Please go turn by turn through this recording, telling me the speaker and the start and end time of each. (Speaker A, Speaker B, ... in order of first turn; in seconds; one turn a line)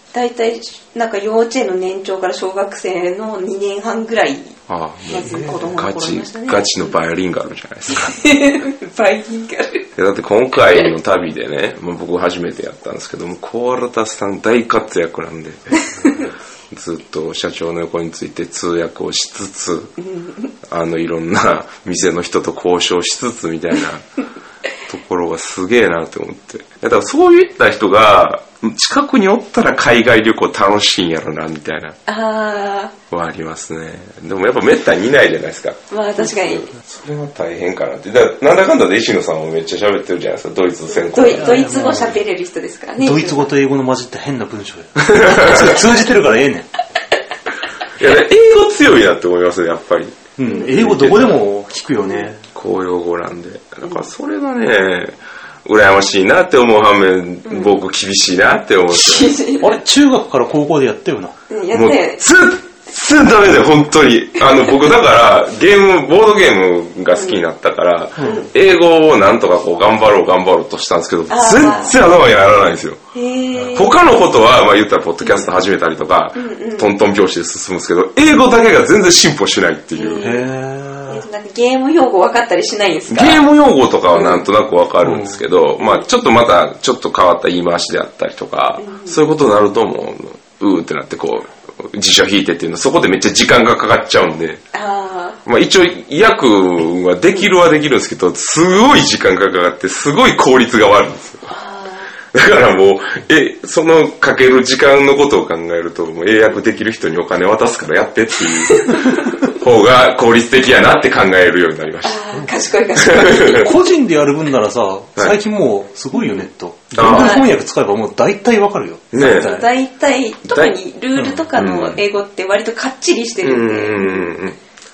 Speaker A: 0.1-4.6
Speaker B: 4.7-8.2
Speaker A: 5.1-6.9
Speaker C: 5.2-5.7
Speaker A: 8.0-9.9
Speaker B: 9.9-19.9
Speaker A: 20.0-20.5
Speaker B: 20.7-24.0
Speaker B: 24.9-32.0
Speaker A: 32.1-32.9
Speaker B: 33.1-41.6
Speaker A: 35.9-36.7
Speaker A: 40.9-43.5
Speaker C: 41.2-42.2
Speaker C: 43.0-46.7
Speaker B: 45.1-45.6
Speaker B: 48.0-51.4
Speaker C: 50.4-52.5
Speaker B: 52.5-59.3
Speaker A: 57.5-57.7
Speaker A: 59.0-59.7
Speaker C: 59.6-61.4
Speaker A: 61.5-62.2
Speaker B: 61.7-73.0
Speaker A: 67.1-67.4
Speaker A: 68.2-68.5
Speaker A: 71.3-71.9
Speaker A: 73.1-74.0
Speaker B: 73.7-80.3
Speaker A: 75.2-75.5
Speaker A: 76.3-76.9
Speaker A: 79.9-80.5
Speaker C: 80.2-81.2
Speaker A: 81.1-83.4
Speaker B: 83.1-94.6
Speaker A: 84.1-84.4
Speaker C: 85.0-85.4
Speaker A: 88.8-89.2
Speaker A: 94.7-95.4
Speaker B: 95.4-101.5
Speaker A: 101.5-102.1
Speaker B: 102.3-109.0
Speaker B: 109.5-112.2
Speaker A: 112.0-113.6
Speaker B: 113.0-113.7
Speaker C: 113.5-119.7
Speaker A: 116.1-116.4
Speaker B: 116.9-117.4
Speaker A: 117.0-117.5
Speaker B: 119.1-119.5
Speaker A: 119.2-124.3
Speaker B: 120.4-120.7
Speaker C: 121.2-121.4
Speaker B: 121.5-122.0
Speaker B: 123.4-124.6